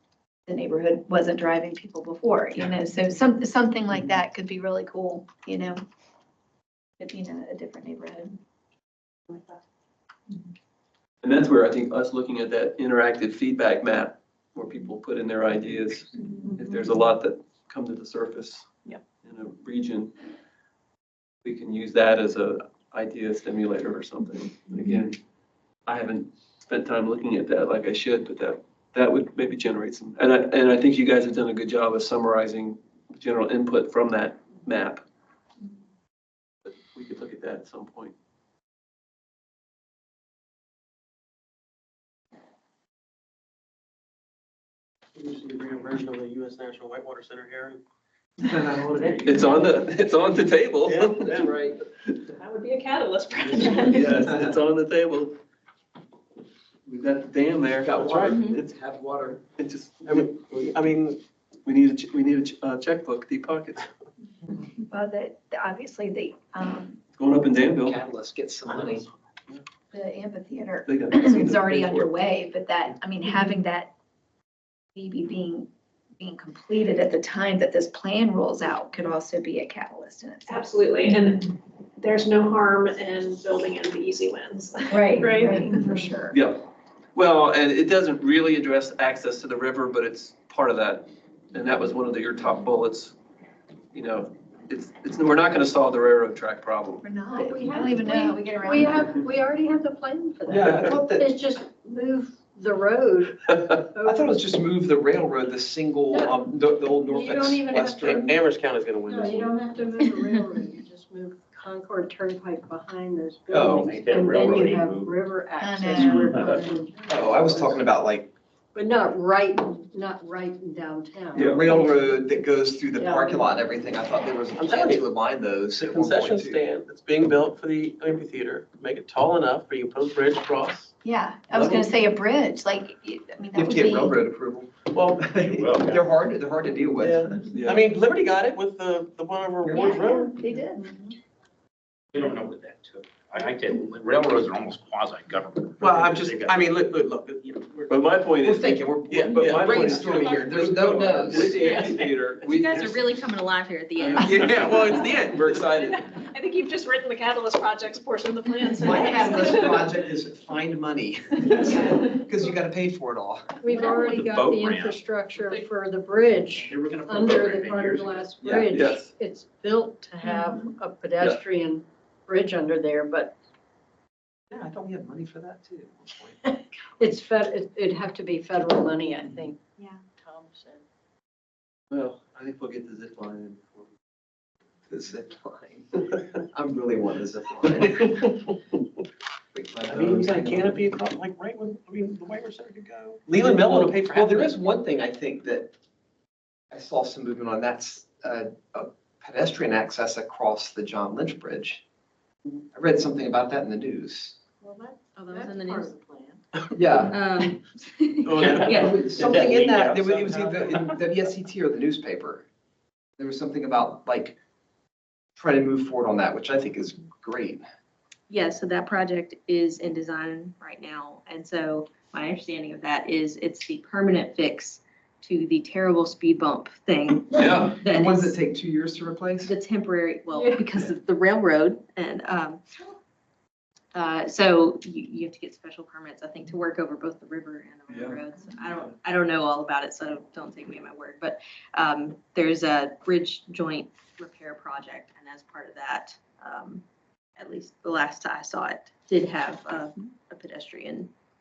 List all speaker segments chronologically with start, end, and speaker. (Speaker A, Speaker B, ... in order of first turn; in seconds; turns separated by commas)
Speaker A: 0.5-5.8, Speaker A: 7.0-8.4, Speaker B: 11.2-18.7, Speaker B: 19.2-20.1, Speaker B: 21.4-25.2, Speaker B: 25.9-35.0, Speaker B: 36.6-38.1, Speaker C: 45.1-47.8, Speaker D: 48.4-49.7, Speaker B: 49.2-52.2, Speaker C: 50.8-51.5, Speaker E: 52.4-54.0, Speaker B: 53.6-55.4, Speaker D: 54.2-54.5, Speaker B: 56.9-58.6, Speaker D: 57.8-59.4, Speaker C: 58.0-58.4, Speaker B: 59.5-60.0, Speaker C: 60.0-61.2, Speaker B: 61.6-63.9, Speaker A: 64.8-67.0, Speaker B: 67.2-68.0, Speaker D: 67.8-69.1, Speaker A: 69.9-73.9, Speaker B: 70.9-72.1, Speaker A: 75.0-80.8, Speaker E: 80.5-81.4, Speaker E: 82.0-85.8, Speaker A: 84.9-86.4, Speaker B: 86.3-86.6, Speaker B: 87.2-93.2, Speaker B: 93.9-97.1, Speaker A: 97.0-99.2, Speaker F: 97.2-104.4, Speaker D: 100.5-101.3, Speaker D: 104.0-108.3, Speaker F: 106.1-106.4, Speaker F: 107.1-108.3, Speaker C: 107.7-109.5, Speaker F: 109.1-117.8, Speaker D: 113.5-114.0, Speaker G: 113.7-115.2, Speaker A: 115.6-116.6, Speaker G: 116.1-116.7, Speaker D: 117.1-118.3, Speaker F: 118.8-123.6, Speaker B: 121.3-121.8, Speaker D: 121.4-126.6, Speaker C: 124.6-125.1, Speaker C: 125.8-130.9, Speaker A: 131.0-134.2, Speaker B: 131.5-131.9, Speaker D: 133.6-137.6, Speaker C: 134.9-135.7, Speaker G: 135.4-136.1, Speaker C: 137.0-140.4, Speaker B: 137.5-137.8, Speaker D: 139.7-139.9, Speaker A: 139.7-141.1, Speaker G: 142.1-146.9, Speaker C: 145.8-148.1, Speaker B: 147.9-153.1, Speaker D: 148.4-151.7, Speaker C: 149.1-150.3, Speaker C: 151.6-151.9, Speaker H: 151.6-155.0, Speaker B: 154.0-156.1, Speaker C: 154.5-155.7, Speaker E: 156.4-159.4, Speaker D: 158.8-163.6, Speaker F: 163.6-173.3, Speaker G: 163.9-165.0, Speaker G: 166.5-168.7, Speaker B: 168.7-169.1, Speaker A: 170.3-170.6, Speaker D: 174.5-176.4, Speaker F: 176.8-180.8, Speaker B: 181.9-183.9, Speaker D: 184.9-188.2, Speaker D: 189.5-190.9, Speaker C: 189.9-194.6, Speaker D: 193.4-195.7, Speaker D: 196.7-201.8, Speaker D: 202.7-204.4, Speaker F: 204.6-206.4, Speaker H: 205.2-205.9, Speaker D: 206.8-207.2, Speaker H: 207.0-209.1, Speaker C: 208.2-211.0, Speaker D: 208.3-212.5, Speaker B: 209.2-209.7, Speaker D: 213.2-214.4, Speaker D: 215.4-217.6, Speaker H: 218.3-228.4, Speaker B: 227.3-227.8, Speaker D: 227.8-229.5, Speaker H: 229.4-232.6, Speaker F: 230.3-230.6, Speaker H: 233.9-246.8, Speaker B: 237.9-238.9, Speaker H: 247.4-251.1